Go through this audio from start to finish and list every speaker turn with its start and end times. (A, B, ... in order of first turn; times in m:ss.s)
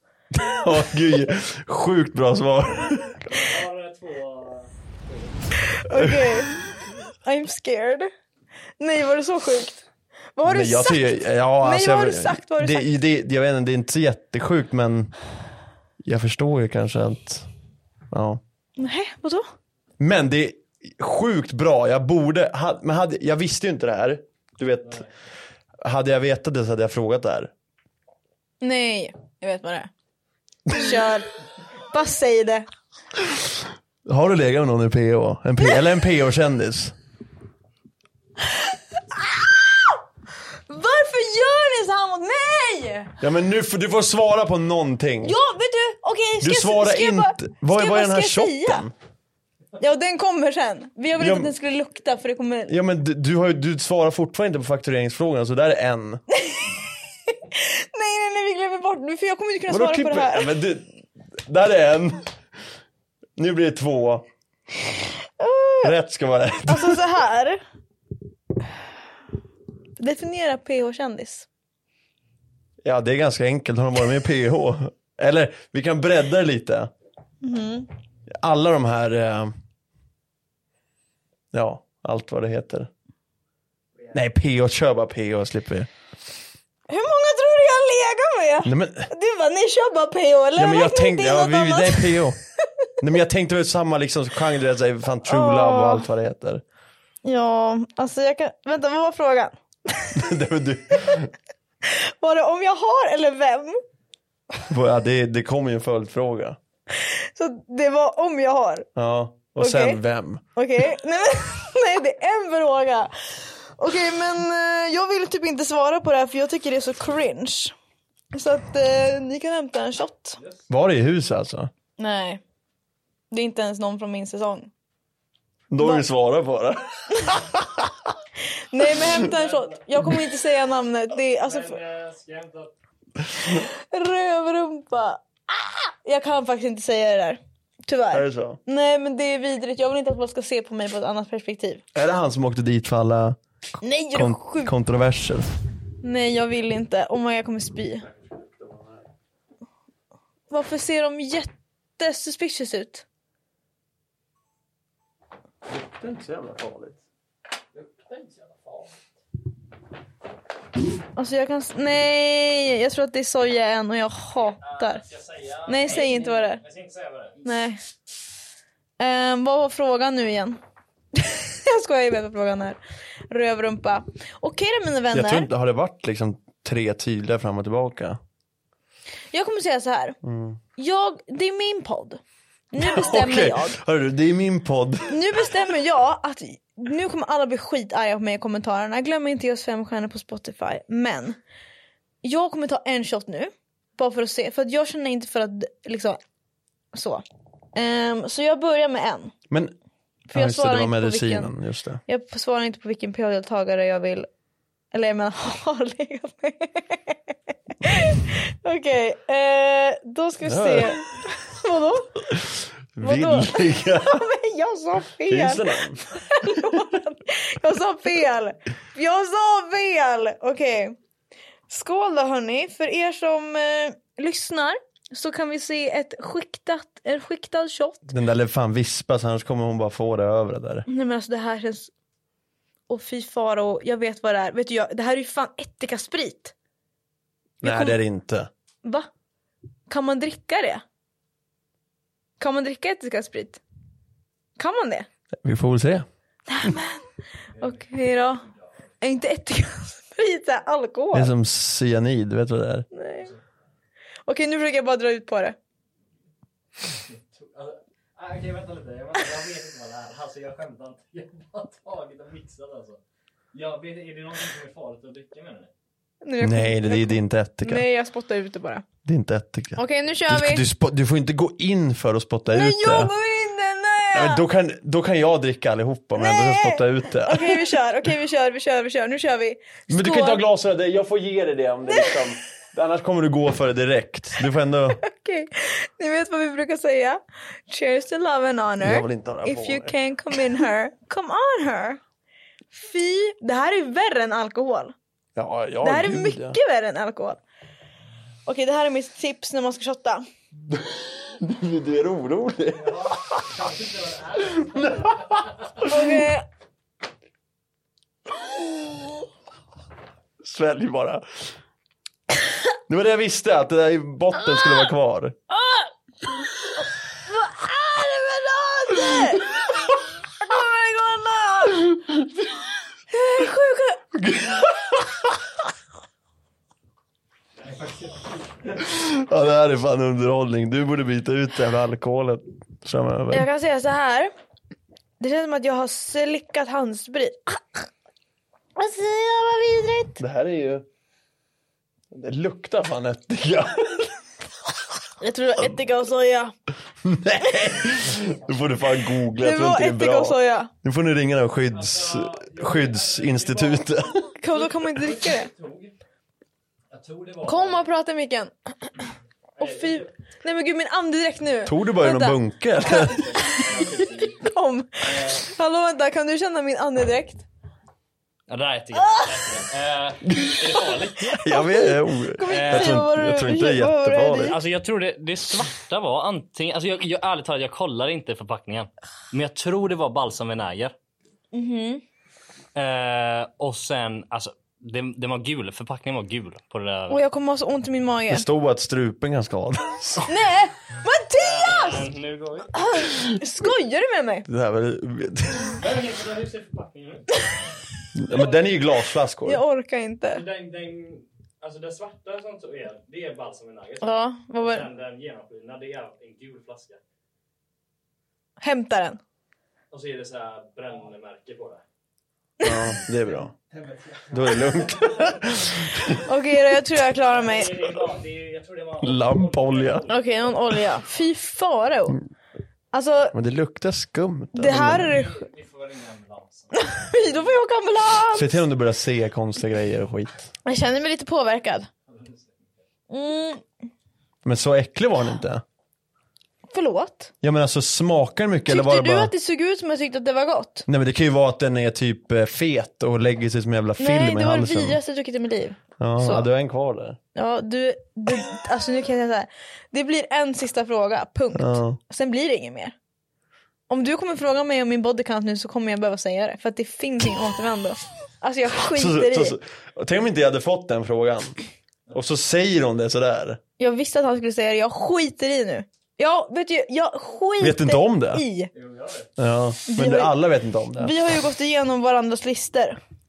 0:00.4-0:03.4 A
0:03.3-0:05.5 B
0:05.7-0:06.5 C
0:05.9-0:06.3 A
0:07.2-0:08.1 C
0:08.8-0:09.8 C
0:10.4-0:12.9 C
0:10.4-0:15.1 A
0:16.0-0:17.5 A
0:18.1-0:18.4 A
0:18.8-0:19.4 C
0:20.0-0:25.0 A
0:25.8-0:27.5 A
0:28.6-0:29.9 C
0:30.7-0:31.3 C
0:31.8-0:32.6 C
0:34.0-0:36.9 A
0:39.2-0:39.9 C
0:40.7-0:43.2 C
0:43.2-0:45.4 A
0:45.2-0:48.9 C
0:46.4-0:48.9 A
0:49.8-0:52.8 C
0:51.2-0:51.5 A
0:52.7-0:56.2 A
0:56.3-0:56.7 C
0:57.3-1:00.5 C
0:59.7-1:02.3 A
1:03.4-1:04.2 A
1:05.4-1:05.9 C
1:05.8-1:07.0 A
1:06.7-1:07.6 C
1:10.0-1:11.4 C
1:12.8-1:16.9 A
1:17.4-1:17.9 C
1:18.3-1:19.5 A
1:21.5-1:22.9 A
1:24.1-1:25.9 A
1:26.9-1:32.2 C
1:28.6-1:29.1 A
1:30.6-1:32.4 A
1:33.0-1:36.6 A
1:35.2-1:36.0 C
1:37.2-1:40.2 C
1:40.1-1:41.3 A
1:41.8-1:43.8 C
1:44.7-1:46.6 A
1:46.9-1:48.9 C
1:49.0-1:50.4 A
1:49.6-1:50.0 C
1:50.6-1:53.1 C
1:53.8-1:57.7 C
1:58.3-2:00.4 C
2:00.4-2:00.7 B
2:00.7-2:01.7 A
2:02.0-2:02.4 C
2:03.3-2:04.7 C
2:05.7-2:07.9 A
2:08.7-2:11.8 C
2:09.2-2:09.8 B
2:11.4-2:12.7 B
2:13.4-2:21.8 C
2:18.1-2:18.6 A
2:21.9-2:23.4 A
2:23.8-2:24.7 C
2:24.1-2:25.5 A
2:26.0-2:28.1 C
2:28.3-2:28.9 A
2:30.5-2:33.0 C
2:35.7-2:37.0 A
2:37.7-2:39.0 B
2:41.2-2:45.0 C
2:44.3-2:47.6 B
2:45.6-2:46.6 C
2:47.4-2:47.8 C
2:49.0-2:50.6 C
2:51.1-2:52.8 C
2:53.3-2:55.5 C
2:55.1-2:58.2 A
2:59.3-3:00.2 C
3:00.2-3:00.6 A
3:00.8-3:02.2 C
3:02.7-3:03.8 C
3:02.8-3:05.2 A
3:05.1-3:11.4 C
3:12.2-3:16.2 C
3:16.9-3:17.2 C
3:17.7-3:19.3 C
3:20.3-3:22.0 A
3:20.3-3:21.5 C
3:22.1-3:24.3 C
3:24.9-3:27.2 C
3:27.8-3:32.2 C
3:30.4-3:31.0 A
3:32.3-3:34.2 A
3:33.0-3:40.9 C
3:35.3-3:36.0 A
3:41.7-3:48.0 C
3:48.1-3:50.9 A
3:50.9-3:51.9 C
3:52.9-3:56.5 C
3:57.6-3:58.5 A
3:57.6-3:58.0 C
3:58.8-3:59.1 C
3:59.9-4:00.8 C
4:02.4-4:03.6 C
4:04.6-4:05.1 C
4:05.4-4:06.0 A
4:06.5-4:07.1 C
4:07.5-4:08.7 B
4:07.6-4:08.4 C
4:09.0-4:11.3 C
4:11.1-4:12.9 A
4:12.9-4:13.3 C
4:14.3-4:15.6 C
4:16.9-4:23.0 B
4:23.5-4:25.7 B
4:26.2-4:28.8 C
4:26.4-4:27.8 A
4:29.0-4:33.1 A
4:29.8-4:30.6 C
4:32.5-4:34.4 C
4:34.1-4:37.8 A
4:36.2-4:40.4 C
4:39.9-4:45.0 A
4:41.9-4:42.2 C
4:45.0-4:52.0 C
4:48.8-4:50.6 A
4:52.7-4:54.9 C
4:55.4-4:56.6 A
4:55.8-4:57.4 C
4:58.4-5:00.2 C
5:00.7-5:03.6 A
5:02.7-5:05.5 B
5:04.6-5:05.3 A
5:05.8-5:06.4 C
5:10.4-5:11.2 A
5:12.9-5:15.4 A
5:15.5-5:15.9 C
5:17.3-5:19.6 C
5:20.4-5:21.9 C
5:21.8-5:22.2 A
5:23.1-5:24.0 C
5:24.1-5:25.3 A
5:27.7-5:28.5 B
5:28.7-5:33.5 A
5:33.3-5:34.3 C
5:35.2-5:37.8 C
5:38.8-5:40.2 C
5:40.2-5:40.8 A
5:42.1-5:44.2 A
5:45.2-5:46.5 C
5:47.0-5:54.2 A
5:49.3-5:50.7 C
5:51.7-5:56.0 B
5:54.4-5:55.5 C
5:56.9-5:57.8 B
5:57.4-5:58.5 C
5:59.6-6:00.1 B
5:59.6-6:03.6 C
6:01.6-6:03.3 A
6:02.7-6:04.4 B
6:04.4-6:07.4 C
6:05.0-6:05.4 B
6:08.5-6:11.4 B
6:09.0-6:09.3 C
6:10.3-6:14.6 A
6:11.4-6:14.6 C
6:12.5-6:13.1 B
6:14.4-6:20.9 B
6:21.5-6:22.0 C
6:22.7-6:27.2 B
6:27.1-6:28.4 C
6:28.3-6:30.3 A
6:30.2-6:32.1 C
6:31.4-6:32.9 B
6:32.7-6:34.5 C
6:34.4-6:35.8 A
6:35.6-6:37.4 B
6:38.2-6:39.6 A
6:38.3-6:38.6 B
6:39.4-6:40.4 C
6:40.3-6:47.0 B
6:44.0-6:44.9 C
6:48.6-6:49.2 C
6:49.9-6:51.8 B
6:52.6-6:52.9 C
6:52.6-6:53.5 A
6:52.9-6:55.6 B
6:54.3-6:56.2 A
6:56.2-6:57.9 C
6:57.2-7:01.2 B
6:59.0-7:00.0 A
7:00.1-7:02.2 C
7:02.9-7:03.3 C
7:03.3-7:05.2 A
7:04.5-7:05.4 C
7:04.9-7:07.6 B
7:06.7-7:08.6 C
7:08.3-7:10.5 A
7:10.6-7:11.9 C
7:12.1-7:12.8 B
7:13.1-7:13.6 C
7:14.4-7:15.6 A
7:16.7-7:17.3 C
7:17.4-7:19.3 A
7:18.7-7:20.9 C
7:20.9-7:25.0 A
7:24.0-7:26.5 C
7:26.0-7:27.2 A
7:27.3-7:32.9 C
7:31.5-7:32.0 A
7:33.9-7:39.6 C
7:38.8-7:41.6 A
7:42.1-7:43.6 A
7:43.8-7:48.7 C
7:47.6-7:48.4 A
7:48.7-7:49.3 B
7:49.4-7:51.1 A
7:49.9-7:50.3 C
7:51.0-7:53.0 C